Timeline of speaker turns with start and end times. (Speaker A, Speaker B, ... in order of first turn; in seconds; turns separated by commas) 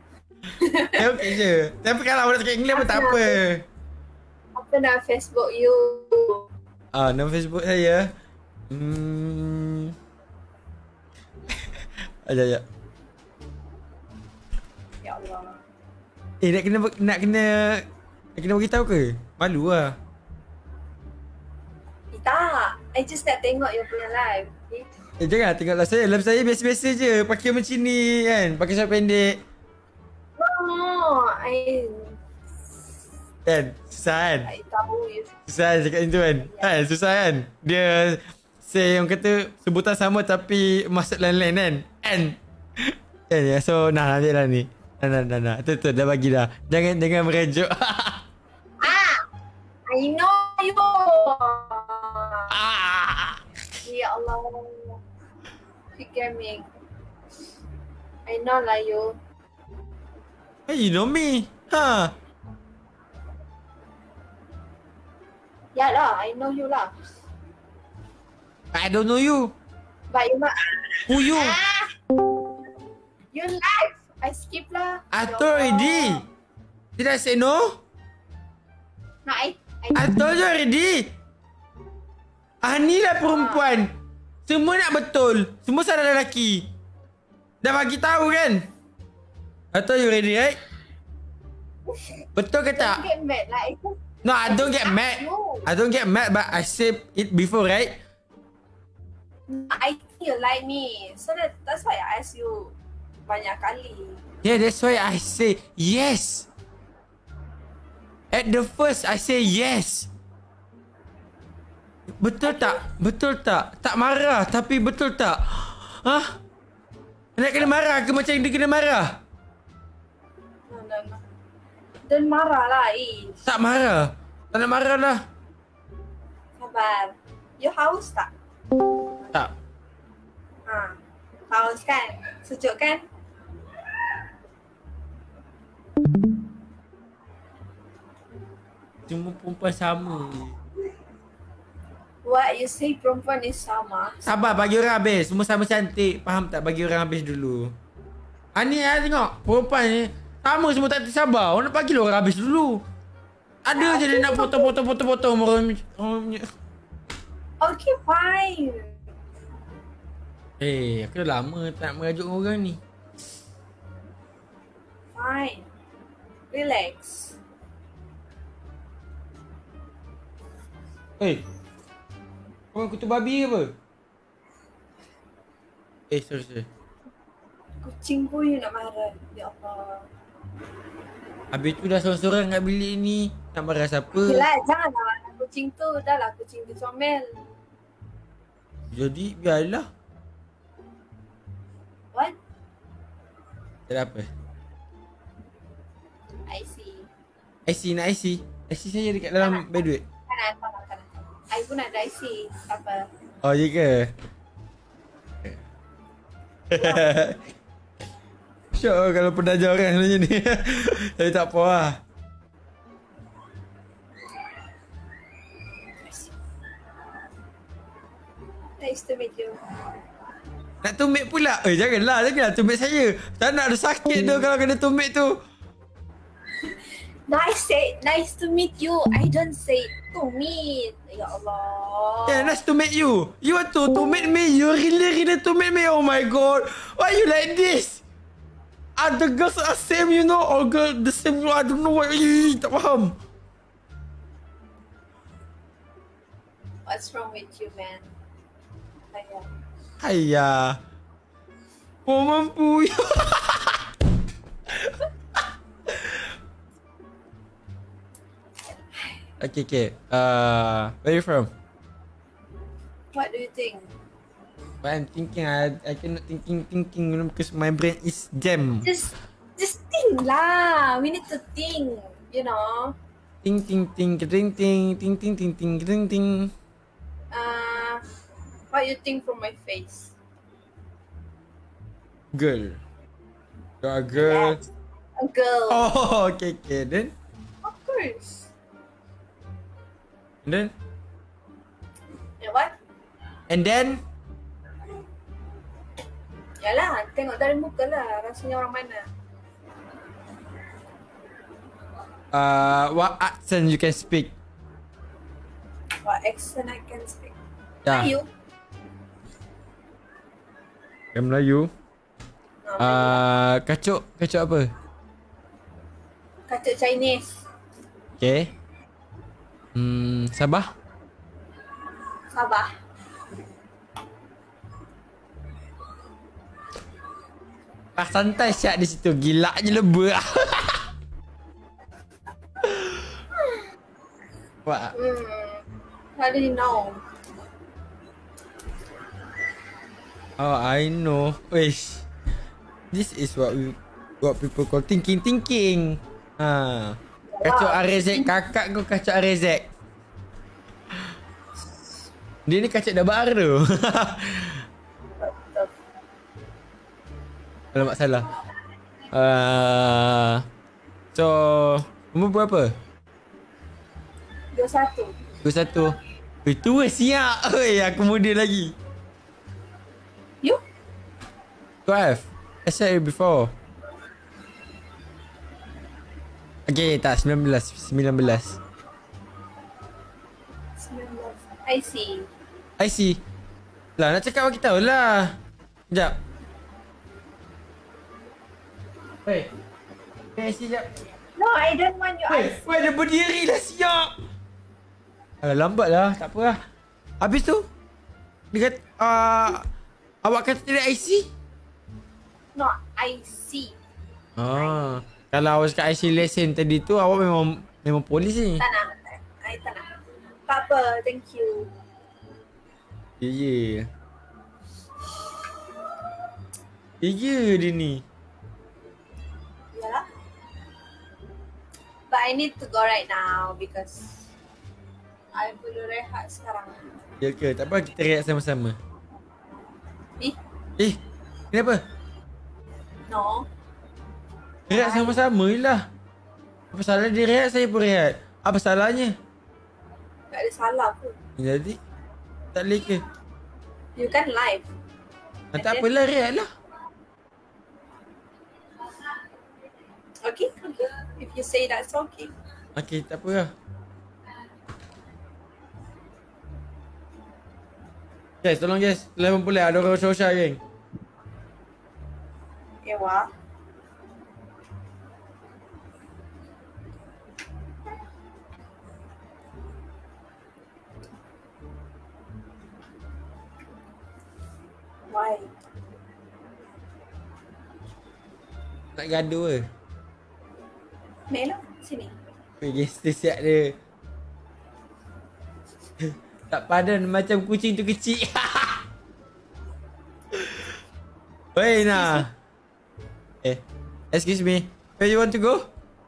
Speaker A: 0.6-1.3, Speaker B: 0.9-3.6, Speaker A: 2.7-3.4, Speaker A: 4.5-6.5, Speaker B: 6.9-8.1, Speaker B: 8.7-9.9, Speaker B: 12.2-12.6, Speaker A: 15.0-15.6, Speaker B: 16.4-17.9, Speaker B: 18.4-20.0, Speaker A: 22.1-24.9, Speaker B: 25.2-29.4, Speaker A: 30.4-32.2, Speaker B: 33.5-34.5, Speaker A: 34.4-35.4, Speaker B: 35.5-48.2, Speaker A: 36.4-36.7, Speaker A: 48.8-49.2, Speaker A: 49.9-52.5, Speaker B: 52.5-53.4, Speaker A: 53.8-55.0, Speaker A: 56.0-56.7, Speaker A: 58.3-59.2, Speaker B: 60.7-62.1, Speaker A: 65.7-66.9, Speaker B: 68.7-69.5, Speaker A: 70.1-71.9, Speaker B: 71.1-71.6, Speaker A: 73.3-76.3, Speaker B: 75.1-76.2, Speaker B: 77.0-77.8, Speaker A: 79.2-80.1, Speaker B: 79.9-81.1, Speaker B: 82.6-83.9, Speaker A: 83.3-83.7, Speaker B: 84.5-86.7, Speaker B: 87.6-88.7, Speaker B: 89.7-90.6, Speaker A: 92.2-95.7, Speaker B: 92.3-93.0, Speaker B: 94.2-98.0, Speaker A: 99.5-102.8, Speaker A: 103.3-104.2, Speaker B: 104.4-106.5, Speaker B: 108.3-110.1, Speaker B: 112.2-116.4, Speaker A: 112.4-112.8, Speaker B: 117.4-119.2, Speaker A: 120.7-121.2, Speaker A: 122.1-123.4, Speaker B: 123.5-125.2, Speaker A: 126.6-128.3, Speaker A: 130.7-133.1, Speaker B: 139.1-140.6, Speaker A: 142.2-144.2, Speaker B: 144.2-147.7, Speaker B: 148.6-152.8, Speaker B: 153.7-156.5, Speaker A: 153.7-154.8, Speaker A: 157.6-159.0, Speaker B: 160.6-162.8, Speaker A: 165.2-165.7, Speaker A: 166.5-167.4, Speaker B: 172.7-173.7, Speaker B: 176.1-176.7, Speaker A: 177.8-180.1, Speaker B: 181.5-184.5, Speaker A: 184.2-187.4, Speaker B: 188.9-189.9, Speaker B: 193.9-194.3, Speaker A: 196.5-197.1, Speaker B: 197.7-200.0, Speaker A: 199.4-203.1, Speaker B: 203.4-204.1, Speaker B: 206.7-207.4, Speaker A: 206.8-207.1, Speaker B: 208.7-212.0, Speaker A: 218.8-219.6, Speaker B: 220.8-225.4, Speaker A: 227.3-232.6, Speaker B: 232.3-238.0, Speaker B: 239.0-243.2, Speaker A: 246.9-248.1, Speaker A: 249.1-249.5, Speaker B: 250.0-250.8, Speaker B: 252.1-253.8, Speaker B: 254.7-255.0, Speaker B: 255.9-256.2, Speaker B: 259.4-261.5, Speaker A: 263.1-263.9, Speaker B: 264.8-268.9, Speaker A: 268.8-273.0, Speaker B: 273.4-276.5, Speaker A: 277.3-278.0, Speaker A: 278.7-280.1, Speaker B: 282.3-282.8, Speaker B: 283.8-284.6, Speaker A: 284.2-284.7, Speaker A: 285.2-285.9, Speaker B: 285.7-287.1, Speaker A: 287.6-288.5, Speaker B: 290.4-290.7, Speaker A: 292.4-292.8, Speaker B: 293.5-294.0, Speaker A: 296.6-299.1, Speaker B: 302.3-304.3, Speaker A: 306.0-307.4, Speaker B: 307.9-308.1, Speaker A: 307.9-308.3, Speaker B: 311.1-311.7, Speaker A: 312.6-313.2, Speaker B: 312.8-314.7, Speaker A: 316.5-317.3, Speaker B: 318.2-318.5, Speaker B: 319.7-320.7, Speaker A: 322.3-322.7, Speaker B: 328.0-330.8, Speaker B: 332.6-333.0, Speaker B: 334.7-334.9, Speaker A: 334.9-337.0, Speaker B: 340.4-342.1, Speaker B: 342.9-349.7, Speaker A: 347.3-348.3, Speaker B: 352.5-354.6, Speaker A: 355.2-355.7, Speaker B: 357.7-358.3, Speaker B: 359.1-360.4, Speaker B: 361.1-362.8, Speaker A: 364.5-365.2, Speaker B: 365.4-368.8, Speaker B: 371.9-373.5, Speaker B: 376.7-378.6, Speaker A: 380.8-382.3, Speaker B: 382.8-383.2, Speaker B: 384.0-385.4, Speaker B: 385.9-386.2, Speaker B: 390.4-390.9, Speaker A: 391.4-392.6, Speaker B: 392.3-394.1, Speaker B: 395.4-396.6, Speaker B: 397.2-397.7, Speaker B: 398.5-399.6, Speaker B: 400.2-401.3, Speaker A: 402.6-403.8, Speaker B: 404.4-408.6, Speaker A: 408.6-409.9, Speaker A: 410.5-411.7, Speaker B: 413.2-413.9, Speaker B: 417.0-418.0, Speaker A: 419.7-420.1, Speaker A: 422.1-424.3, Speaker A: 425.3-426.9, Speaker B: 427.2-428.8, Speaker B: 431.5-431.8, Speaker A: 433.1-433.5, Speaker B: 434.7-435.9, Speaker A: 434.7-435.2, Speaker B: 436.7-439.1, Speaker A: 440.3-441.2, Speaker B: 441.4-441.8, Speaker B: 442.5-443.0, Speaker A: 444.0-444.7, Speaker B: 445.5-446.5, Speaker A: 445.6-445.9, Speaker A: 450.2-452.3, Speaker B: 452.8-453.5, Speaker B: 458.4-460.6, Speaker A: 462.8-463.3, Speaker A: 475.1-475.5, Speaker B: 479.0-479.6, Speaker A: 481.3-482.2, Speaker B: 482.6-483.8, Speaker B: 486.0-488.8, Speaker B: 490.3-490.7, Speaker B: 491.6-492.3, Speaker A: 491.9-492.3, Speaker B: 493.4-495.6